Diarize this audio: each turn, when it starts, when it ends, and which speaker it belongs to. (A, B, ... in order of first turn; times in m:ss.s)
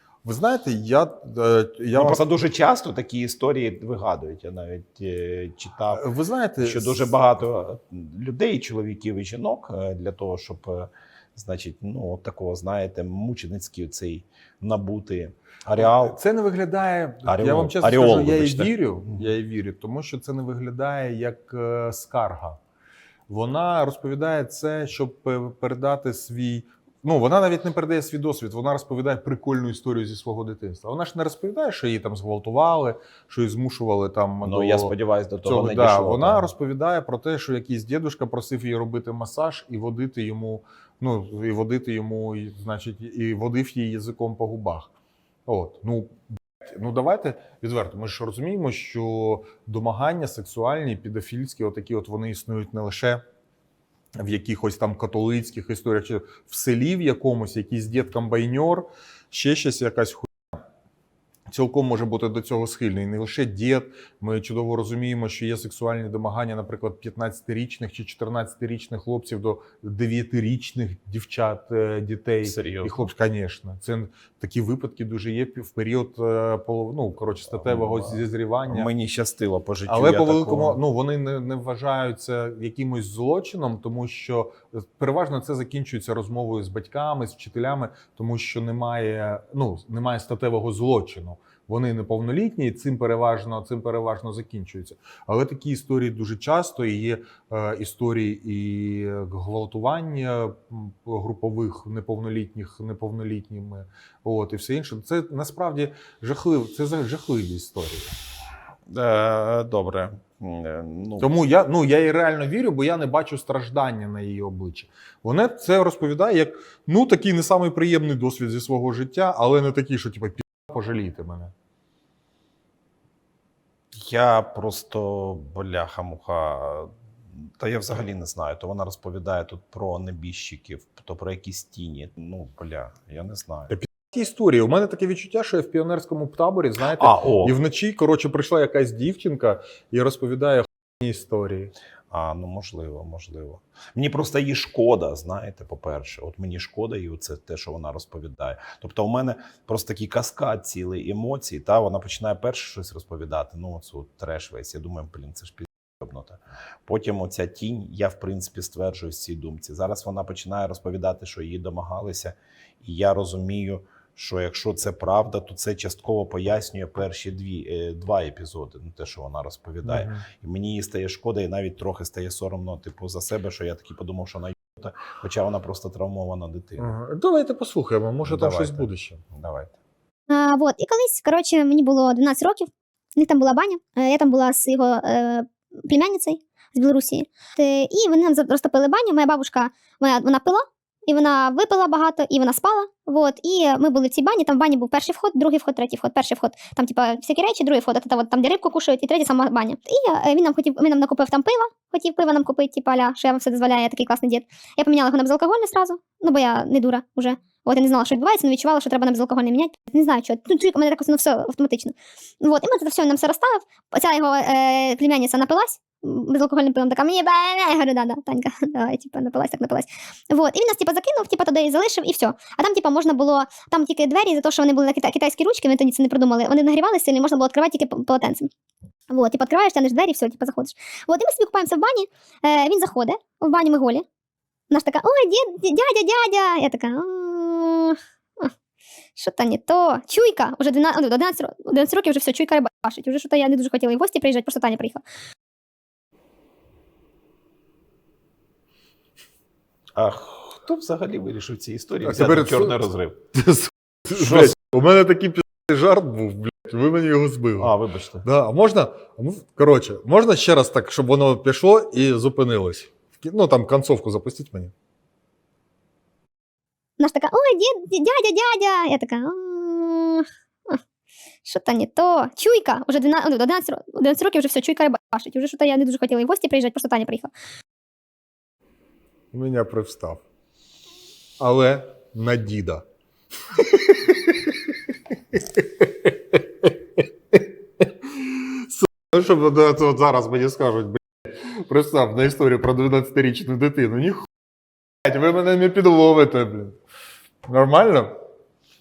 0:00.2-0:02.2 A
0:01.9-0:06.0 B
0:05.9-0:07.1 A
0:06.6-0:16.2 B
0:15.8-0:22.6 A
0:17.2-0:19.3 B
0:23.3-0:34.9 A
0:34.4-0:36.5 B
0:35.4-0:44.9 A
0:45.4-0:53.2 A
0:54.1-1:00.6 A
1:01.5-1:18.9 A
1:12.4-1:13.0 B
1:17.6-1:20.8 B
1:19.9-1:48.1 A
1:48.9-1:51.3 B
1:51.2-2:01.5 A
2:03.9-2:13.7 B
2:13.7-2:21.7 A
2:16.9-2:17.6 B
2:22.1-2:57.0 B
2:49.8-2:50.2 A
2:56.8-2:59.2 A
2:58.2-2:59.7 B
3:00.3-3:48.5 C
3:49.1-3:54.0 C
3:54.7-3:58.5 C
3:59.2-4:05.0 C
4:10.0-4:13.2 B
4:12.0-4:17.7 A
4:14.1-4:14.5 B
4:17.6-4:18.2 B
4:18.2-4:24.7 A
4:27.0-4:30.8 C
4:31.4-4:37.3 C
4:39.3-4:40.2 A
4:41.4-4:42.8 A
4:43.6-4:44.6 A
4:45.3-4:54.3 A
4:55.0-4:56.8 A
4:57.4-4:58.2 A